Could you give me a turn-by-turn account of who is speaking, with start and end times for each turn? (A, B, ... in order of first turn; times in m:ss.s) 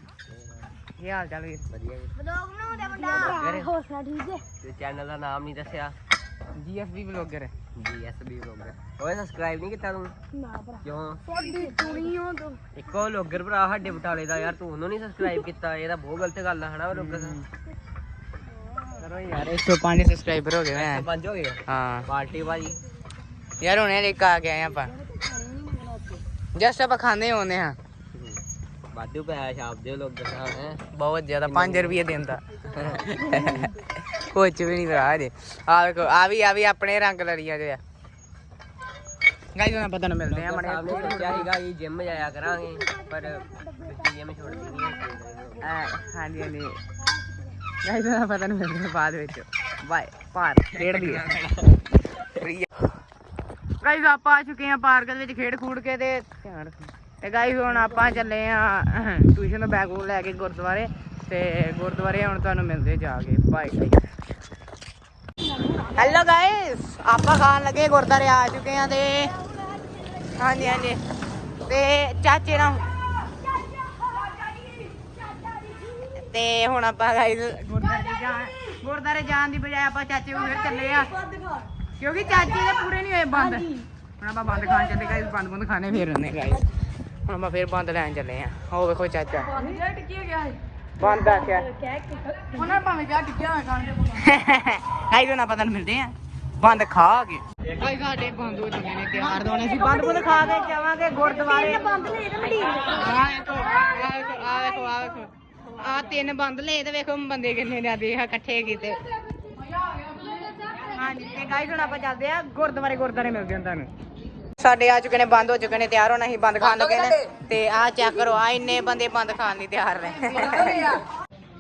0:01.0-0:01.7 A
0:01.7-0:02.3 B
0:02.4-0:04.4 C
0:03.0-0:03.8 B
0:04.5-0:06.0 B
0:06.6-0:07.5 A
0:07.8-0:10.2 B
0:10.7-0:12.0 B
0:11.5-0:12.6 C
0:12.7-0:17.4 B
0:16.9-0:17.4 A
0:19.0-0:19.5 B
0:19.3-0:21.1 A
0:20.7-0:22.8 B
0:21.7-0:22.1 A
0:23.6-0:24.9 A
0:26.6-0:27.8 A
0:28.1-0:30.8 B
0:30.9-0:37.8 A
0:31.5-0:32.0 B
0:39.6-0:41.5 A
0:40.3-0:45.8 B
0:45.6-0:46.8 A
0:47.8-0:51.4 A
0:50.9-0:51.5 B
0:52.4-0:52.6 A
0:53.8-1:04.0 A
1:05.8-1:09.4 A
1:10.3-1:11.0 A
1:11.7-1:12.8 A
1:16.2-1:21.1 A
1:22.0-1:26.7 A
1:27.3-1:29.8 A
1:29.6-1:30.6 C
1:31.0-1:31.7 A
1:32.6-1:49.0 A
1:32.6-1:33.7 C
1:42.2-1:42.8 C
1:50.9-1:53.9 A
1:54.6-2:01.0 A